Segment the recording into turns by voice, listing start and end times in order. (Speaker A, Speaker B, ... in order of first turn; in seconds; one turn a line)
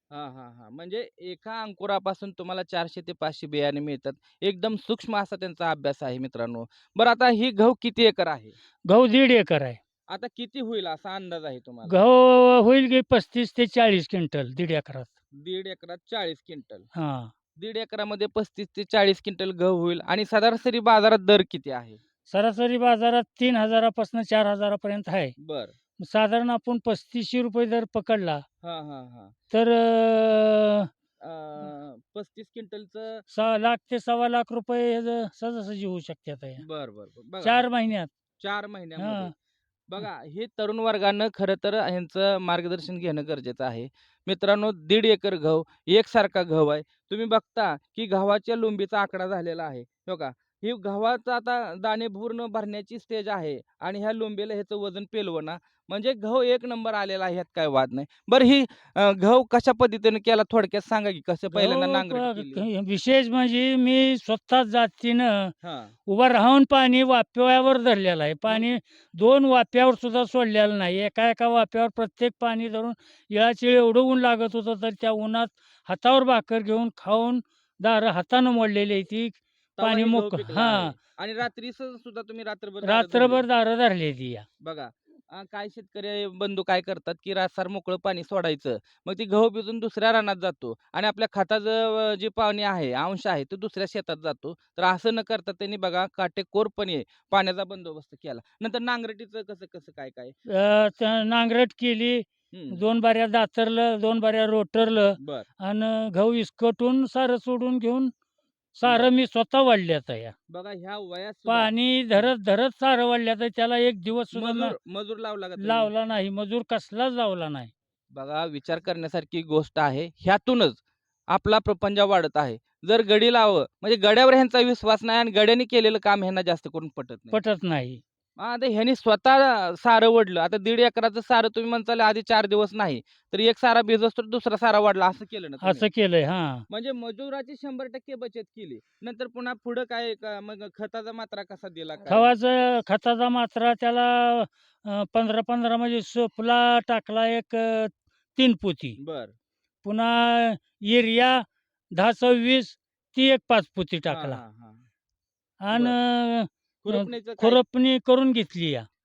Speaker A: 0.1-8.5
Speaker B: 8.9-9.8
Speaker A: 10.1-12.0
Speaker B: 11.9-15.1
Speaker A: 15.4-16.9
Speaker B: 16.9-17.3
Speaker A: 17.6-22.0
Speaker B: 22.3-25.3
Speaker A: 25.4-25.8
Speaker B: 26.0-28.4
Speaker A: 28.6-29.3
Speaker B: 29.5-30.9
Speaker A: 31.2-33.2
Speaker B: 33.3-36.6
Speaker A: 36.6-37.6
Speaker B: 37.4-38.1
Speaker A: 38.4-39.3
Speaker B: 39.0-39.3
Speaker A: 39.9-62.6
Speaker B: 61.5-65.5
Speaker A: 65.6-65.9
Speaker B: 66.1-81.0
Speaker A: 79.8-83.4
Speaker B: 82.8-84.5
Speaker A: 84.6-100.3
Speaker B: 100.5-108.1
Speaker A: 102.5-102.8
Speaker A: 105.2-105.5
Speaker B: 108.7-110.3
Speaker A: 108.8-109.1
Speaker A: 110.5-112.3
Speaker B: 111.5-114.7
Speaker A: 114.3-115.9
Speaker B: 115.6-117.7
Speaker A: 118.1-127.4
Speaker B: 127.3-128.0
Speaker A: 128.4-135.9
Speaker B: 135.6-136.6
Speaker A: 136.7-142.3
Speaker B: 142.1-149.0
Speaker A: 149.0-149.3
Speaker B: 149.8-154.4
Speaker A: 154.1-154.8
Speaker B: 155.6-158.9
Speaker A: 155.7-156.0
Speaker A: 156.8-157.6